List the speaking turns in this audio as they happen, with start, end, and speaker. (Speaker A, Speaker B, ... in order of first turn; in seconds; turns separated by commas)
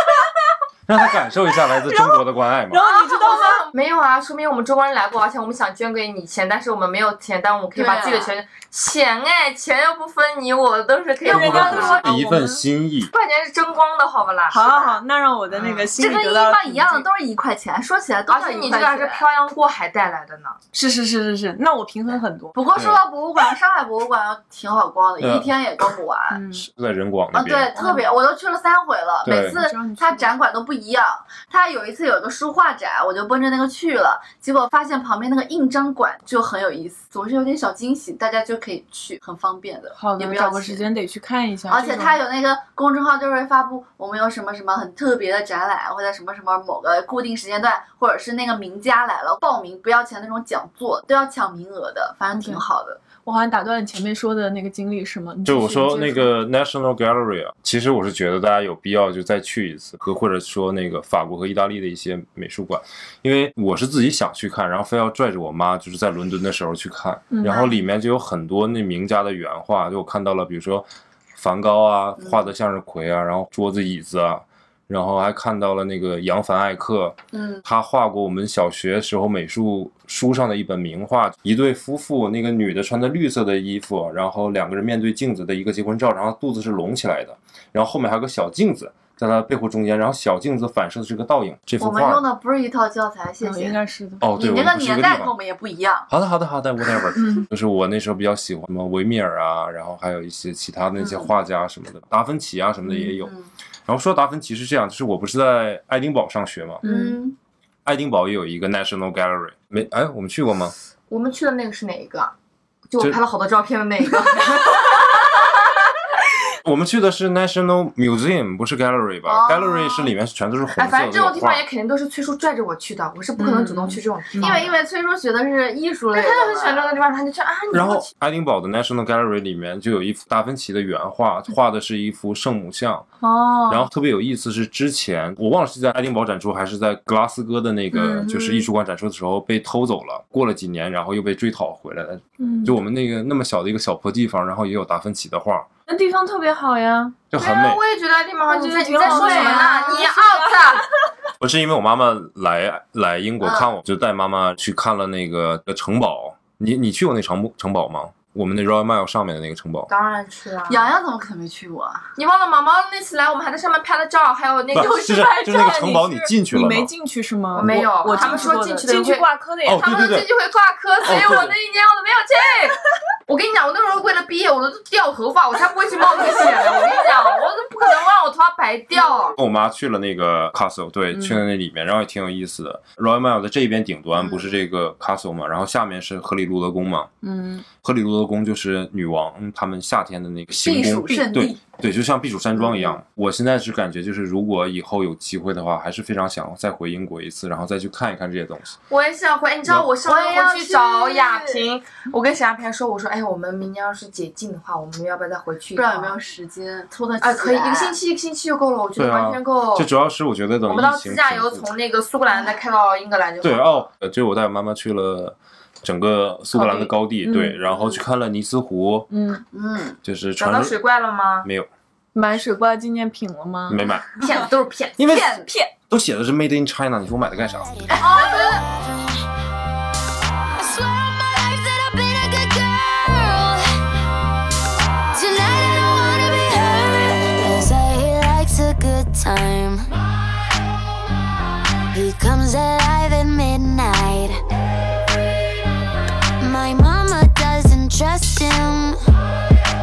Speaker A: 0.9-2.8, Speaker B: 2.7-3.7, Speaker C: 3.2-12.1, Speaker D: 7.7-8.3, Speaker B: 11.2-12.6, Speaker A: 11.3-13.1, Speaker C: 13.1-15.0, Speaker B: 14.5-17.1, Speaker D: 15.6-19.2, Speaker C: 18.3-20.6, Speaker B: 20.7-22.6, Speaker D: 22.5-26.4, Speaker A: 22.7-23.0, Speaker A: 25.2-25.5, Speaker B: 26.3-26.7, Speaker A: 26.5-27.7, Speaker D: 27.3-40.8, Speaker B: 27.7-28.2, Speaker A: 29.2-29.6, Speaker B: 29.3-30.3, Speaker B: 39.9-42.2, Speaker D: 41.7-53.0, Speaker B: 52.3-52.6, Speaker B: 53.2-56.3, Speaker A: 55.4-92.2, Speaker B: 67.3-67.7, Speaker D: 72.2-72.5, Speaker D: 77.3-77.6, Speaker D: 91.8-93.8, Speaker B: 93.4-94.2, Speaker A: 94.2-95.3, Speaker D: 94.3-96.1, Speaker A: 96.1-103.3, Speaker D: 101.0-101.3, Speaker D: 103.0-103.5, Speaker A: 103.9-106.8, Speaker B: 106.8-107.2, Speaker D: 106.8-107.3, Speaker A: 107.8-110.7, Speaker C: 111.1-112.3, Speaker C: 112.9-114.9, Speaker A: 116.6-121.6, Speaker D: 119.3-120.1, Speaker C: 120.7-124.7, Speaker B: 123.4-124.6, Speaker D: 124.4-126.9, Speaker C: 126.1-128.1, Speaker A: 127.7-133.1, Speaker B: 133.2-133.9, Speaker A: 133.7-145.7, Speaker B: 137.9-138.5, Speaker B: 142.4-142.8, Speaker B: 145.9-147.2, Speaker A: 147.3-147.8, Speaker C: 147.3-150.8, Speaker B: 148.5-150.7, Speaker D: 149.0-150.0, Speaker A: 151.4-159.9, Speaker D: 153.4-153.7, Speaker C: 159.9-160.9, Speaker D: 160.7-162.1, Speaker C: 162.2-165.3, Speaker A: 164.7-166.9, Speaker D: 164.8-165.8, Speaker B: 165.4-169.9, Speaker C: 167.5-179.4, Speaker D: 168.1-168.4, Speaker A: 169.6-170.3, Speaker A: 171.0-171.5, Speaker A: 179.4-187.1, Speaker B: 181.1-181.4, Speaker D: 184.2-184.5, Speaker B: 187.2-187.6, Speaker A: 187.8-198.8, Speaker D: 190.6-191.6, Speaker D: 192.6-193.0, Speaker C: 198.9-206.2, Speaker D: 200.0-201.6, Speaker D: 205.8-208.0, Speaker C: 207.2-209.9, Speaker A: 208.9-211.7, Speaker C: 210.7-213.8, Speaker A: 213.4-219.1, Speaker B: 216.5-217.6, Speaker B: 219.1-219.4, Speaker D: 219.5-220.0, Speaker A: 220.0-220.8, Speaker C: 220.4-221.5, Speaker A: 221.4-221.7, Speaker B: 222.1-223.8, Speaker A: 223.7-224.1, Speaker C: 224.2-225.1, Speaker A: 225.0-228.0, Speaker D: 225.1-225.5, Speaker D: 227.9-228.6, Speaker E: 227.9-229.2, Speaker E: 230.6-233.7, Speaker E: 235.1-239.8, Speaker E: 241.9-244.4, Speaker E: 246.4-249.0